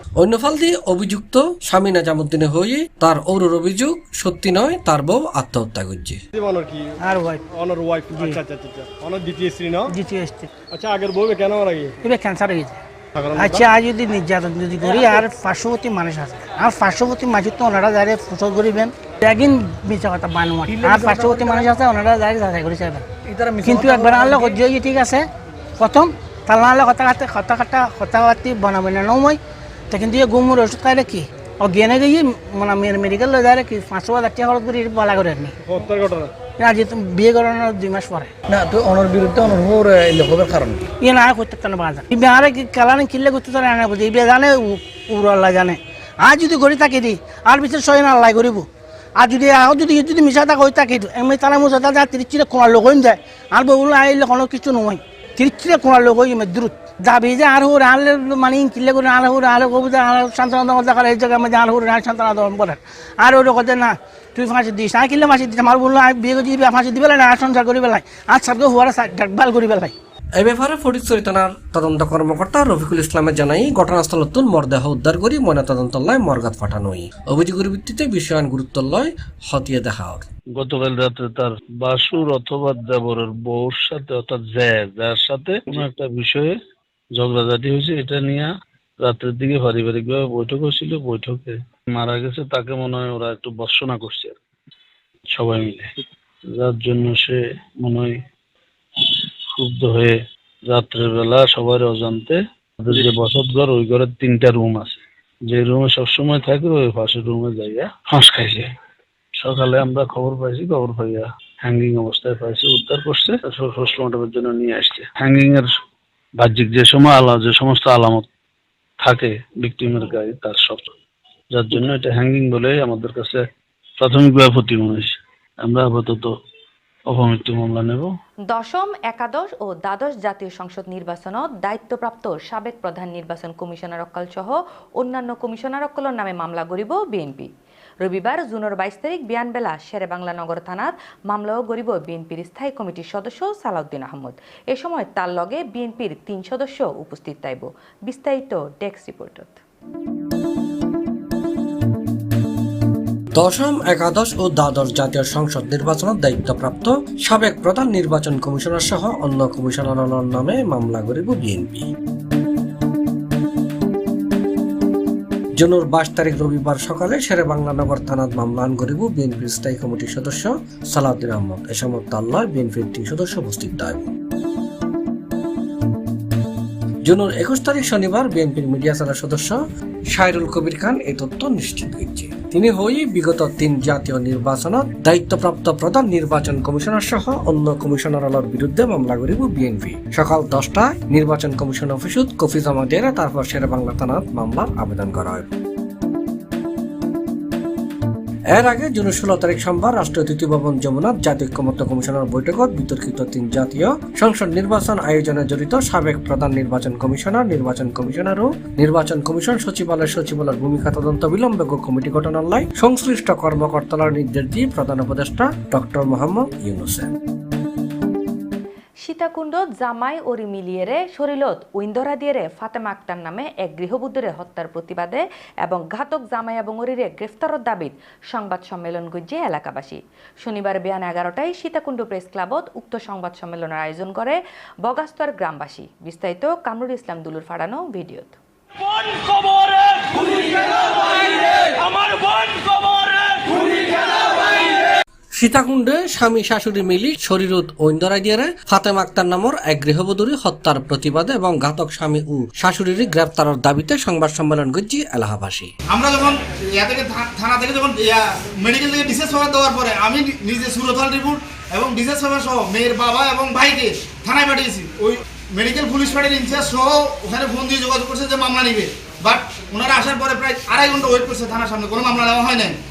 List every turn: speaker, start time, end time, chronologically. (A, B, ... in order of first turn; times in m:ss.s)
0:00.2-0:06.2 A
0:06.4-0:06.9 B
0:07.0-0:07.4 C
0:07.5-0:09.9 B
0:08.2-0:08.4 C
0:09.9-0:10.5 C
0:10.7-0:11.9 B
0:12.0-0:12.8 C
0:13.2-0:13.7 B
0:13.4-0:23.0 C
0:14.8-0:15.1 D
0:20.7-0:21.8 D
0:23.3-0:24.6 D
0:23.6-0:25.3 C
0:25.8-0:29.4 C
0:29.9-0:35.6 C
0:35.6-0:36.3 B
0:36.6-0:38.3 C
0:38.5-0:40.9 D
0:41.0-0:48.7 C
0:49.2-1:09.9 C
1:10.4-1:20.3 A
1:20.6-1:26.6 E
1:27.2-1:34.4 E
1:35.3-1:35.9 E
1:36.5-1:38.2 E
1:39.6-1:48.7 E
1:49.4-1:55.8 E
1:56.4-1:58.3 E
1:59.0-2:00.9 E
2:01.5-2:03.4 E
2:04.0-2:05.1 E
2:05.6-2:06.3 E
2:07.1-2:08.1 E
2:08.5-2:17.5 F
2:18.0-2:29.6 F
2:33.4-2:41.9 A
2:45.6-2:54.1 A
2:57.0-2:59.6 A
3:00.1-3:15.5 A
3:18.5-3:37.1 A
3:39.0-3:58.4 F
3:58.9-4:00.5 G
4:01.6-4:03.5 G
4:05.4-4:15.7 A
4:15.9-4:32.8 H